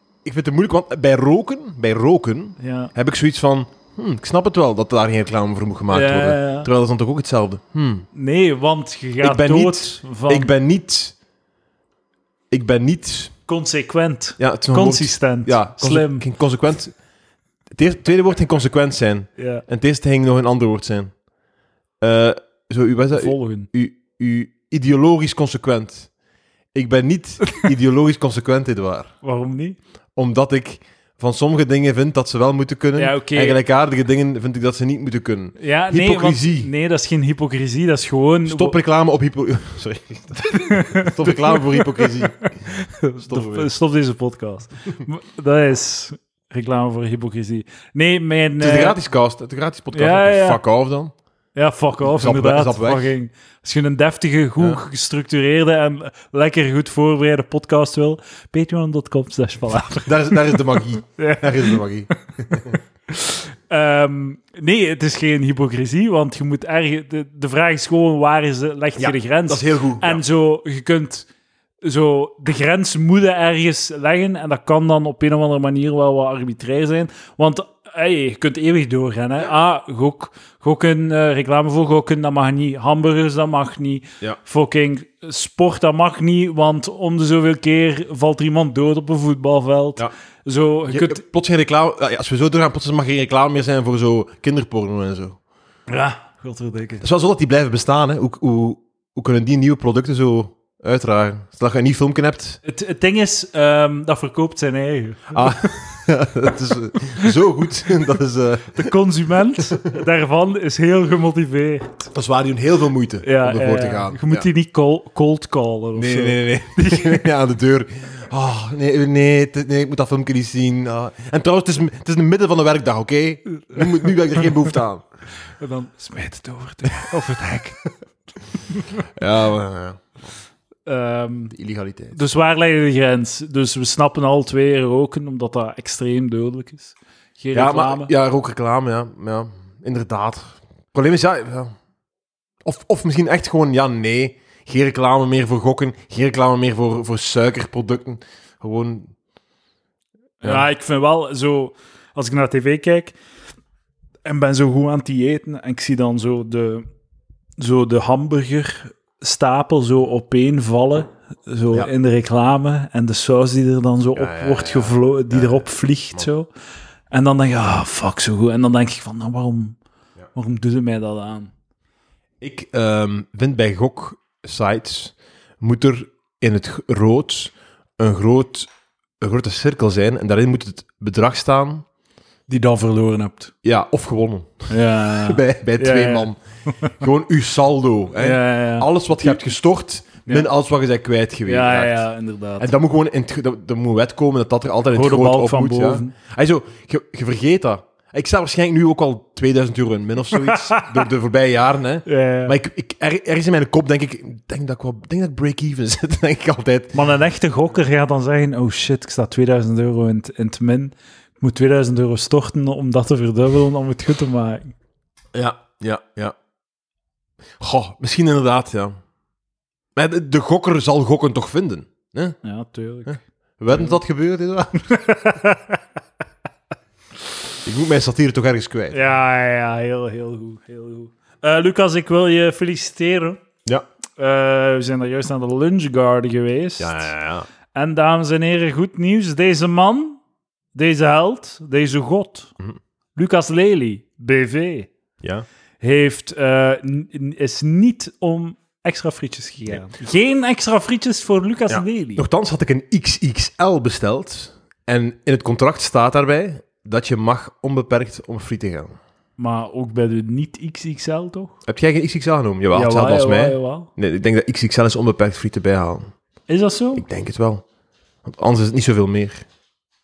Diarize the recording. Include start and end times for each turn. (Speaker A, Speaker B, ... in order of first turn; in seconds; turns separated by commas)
Speaker A: 0.2-8.1, Speaker B: 2.6-2.9, Speaker B: 5.9-6.7, Speaker B: 8.2-10.5, Speaker A: 9.2-11.2, Speaker A: 12.5-13.3, Speaker B: 13.5-16.2, Speaker A: 14.4-16.9, Speaker A: 17.7-21.1, Speaker B: 19.4-19.6, Speaker A: 22.0-26.1, Speaker B: 23.1-23.7, Speaker A: 26.7-29.1, Speaker B: 29.2-29.8, Speaker A: 30.2-36.7, Speaker B: 33.0-33.6, Speaker B: 35.6-38.8, Speaker A: 38.5-43.7, Speaker B: 40.4-49.0, Speaker A: 48.6-51.1, Speaker B: 49.9-50.6, Speaker B: 51.5-61.8, Speaker A: 52.0-53.1, Speaker A: 60.1-62.8, Speaker B: 63.1-71.3, Speaker A: 69.0-70.2, Speaker B: 71.8-91.2, Speaker A: 90.9-95.4, Speaker B: 95.9-97.0, Speaker A: 97.0-102.6, Speaker B: 102.6-105.6, Speaker A: 105.3-108.9, Speaker B: 108.7-112.1, Speaker A: 109.6-109.8, Speaker A: 112.1-114.5, Speaker B: 113.2-117.3, Speaker A: 116.0-125.0, Speaker B: 123.6-124.5, Speaker B: 125.6-127.8, Speaker B: 128.7-129.0, Speaker A: 129.0-130.1, Speaker B: 130.9-131.5, Speaker A: 131.5-132.2, Speaker B: 132.1-138.1, Speaker A: 137.6-141.7, Speaker A: 142.6-149.1, Speaker B: 150.4-153.2, Speaker B: 154.2-156.9, Speaker B: 157.6-166.5, Speaker A: 164.2-166.3, Speaker B: 167.1-169.8, Speaker B: 170.3-171.5, Speaker A: 172.4-178.7, Speaker A: 179.2-181.9, Speaker B: 182.5-183.5, Speaker A: 183.6-186.4, Speaker B: 184.7-187.0, Speaker A: 186.9-192.0, Speaker B: 188.2-189.4, Speaker B: 191.5-192.8, Speaker A: 192.6-207.0, Speaker B: 194.9-196.1, Speaker B: 200.3-200.9, Speaker B: 202.1-202.6, Speaker B: 206.9-214.8, Speaker A: 215.3-216.3, Speaker A: 217.6-218.9, Speaker A: 220.0-222.4, Speaker B: 222.4-224.0, Speaker A: 223.1-224.8, Speaker B: 224.9-225.8, Speaker A: 227.7-229.0, Speaker B: 228.9-233.4, Speaker B: 234.2-237.1, Speaker A: 236.8-237.5, Speaker B: 237.7-240.2, Speaker B: 240.8-242.5, Speaker B: 243.2-244.9, Speaker A: 245.2-245.5, Speaker B: 245.8-252.2, Speaker A: 251.7-258.9, Speaker B: 259.4-261.5, Speaker A: 261.7-266.1, Speaker B: 262.7-263.9, Speaker B: 266.5-267.1, Speaker A: 267.0-267.6, Speaker A: 268.2-269.4